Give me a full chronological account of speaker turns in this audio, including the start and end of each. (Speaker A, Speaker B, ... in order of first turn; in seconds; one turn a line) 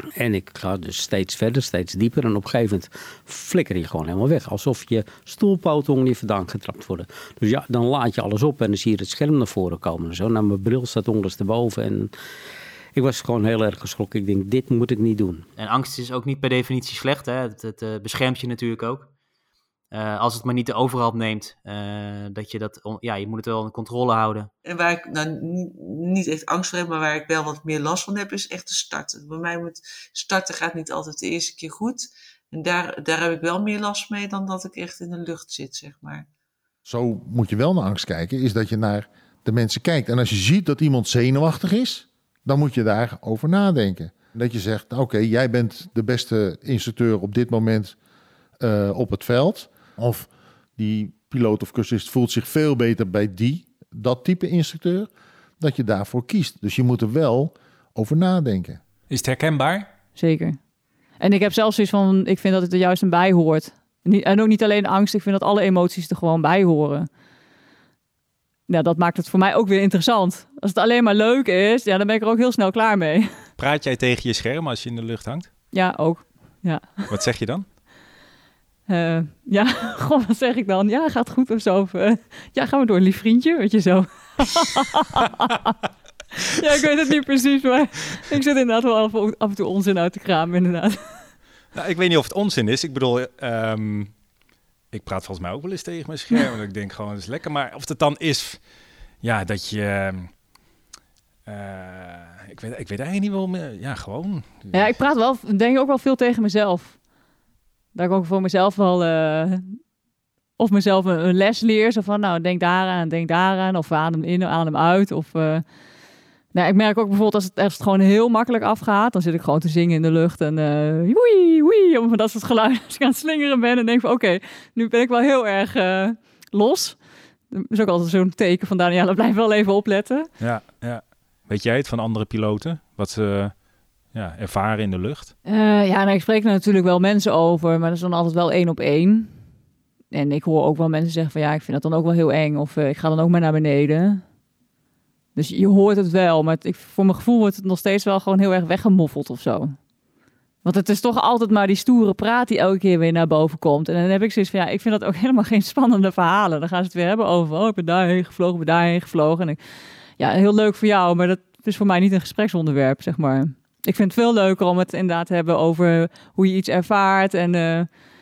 Speaker A: 0.1-12.1
Speaker A: 12.9-15.4
Speaker B: 15.6-19.1
Speaker B: 19.9-24.5
Speaker C: 24.6-36.2
Speaker D: 36.8-48.0
Speaker D: 48.6-58.8
Speaker E: 59.1-59.9
Speaker F: 60.1-60.6
Speaker F: 61.2-67.1
Speaker F: 68.7-73.3
Speaker E: 73.6-75.5
Speaker F: 75.7-77.1
Speaker E: 77.1-77.7
Speaker F: 78.9-85.7
Speaker F: 86.5-91.1
Speaker E: 91.7-94.1
Speaker E: 94.9-98.6
Speaker E: 99.2-100.3
Speaker E: 101.5-104.9
Speaker F: 104.7-107.0
Speaker F: 107.9-109.8
Speaker F: 110.6-115.6
Speaker F: 116.5-127.0
Speaker F: 127.5-130.3
Speaker E: 130.4-133.5
Speaker E: 134.1-135.3
Speaker F: 135.4-139.3
Speaker F: 140.1-144.2
Speaker F: 145.3-149.8
Speaker F: 150.6-159.6
Speaker F: 160.2-167.9